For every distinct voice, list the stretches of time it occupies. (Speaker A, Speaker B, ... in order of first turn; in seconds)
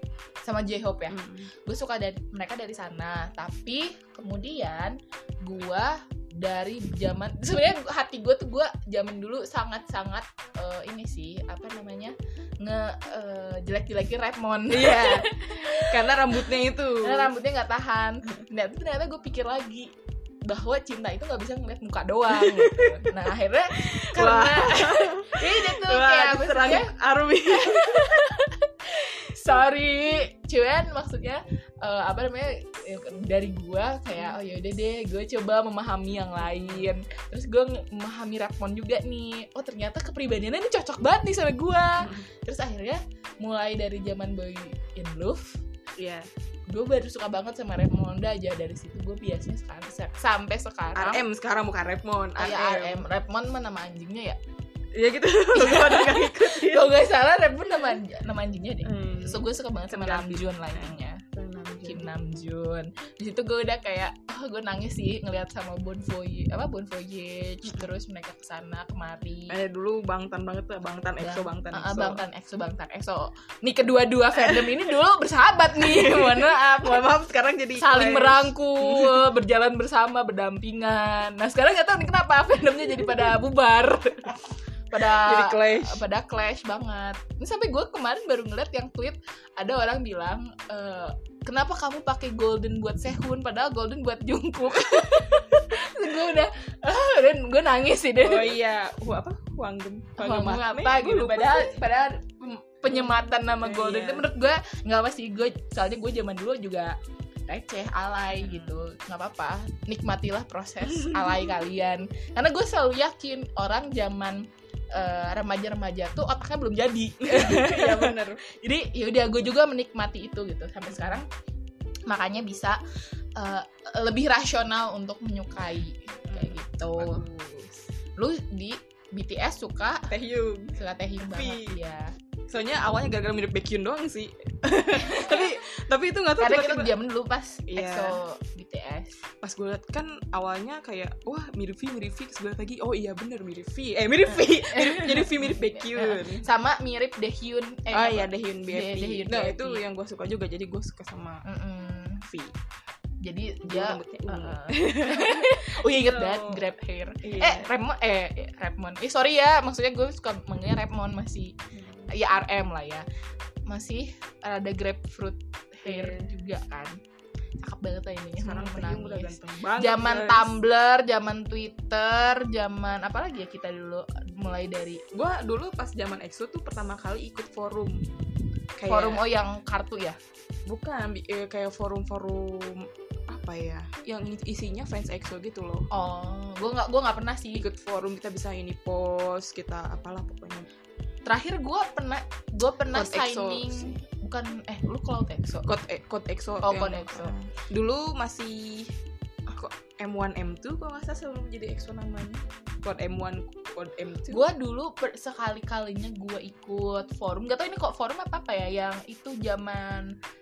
Speaker A: 0.4-16.4, 17.0-19.9, 20.4-26.9, 27.5-45.6, 46.7-51.2, 52.4-54.4, 55.5-61.2, 61.9-69.6, 71.2-77.2, 77.8-84.4, 84.9-98.6, 100.2-107.0, 107.5-121.3, 122.1-122.8, 123.4-127.2, 128.2-130.1, 130.8-132.1, 134.9-135.5, 136.4-139.2, 144.6-149.8, 151.4-152.2, 153.2-161.6, 162.1-163.1, 163.7-167.0, 167.6-175.0, 178.9-180.2, 185.9-187.7, 191.3-195.7, 196.6-197.3, 204.3-210.2
Speaker B: 1.1-1.5, 14.7-17.3, 22.3-23.1, 23.7-28.2, 36.4-36.9, 42.0-42.3, 46.0-46.3, 51.0-53.0, 54.9-56.9, 58.8-62.1, 67.6-67.9, 69.5-72.2, 74.4-74.8, 75.8-79.3, 84.9-86.0, 98.2-101.8, 102.9-104.3, 108.3-108.8, 110.8-111.6, 117.2-118.4, 120.9-121.2, 126.3-127.8, 130.1-131.8, 132.5-136.9, 137.7-138.2, 139.4-146.5, 147.9-151.4, 152.3-152.6, 153.6-156.7, 157.2-157.7, 161.7-162.1, 165.8-166.3, 168.4-170.5, 175.1-178.1, 178.8-179.2, 180.7-185.9, 187.6-190.7, 192.9-194.0, 195.7-198.9, 199.5-204.5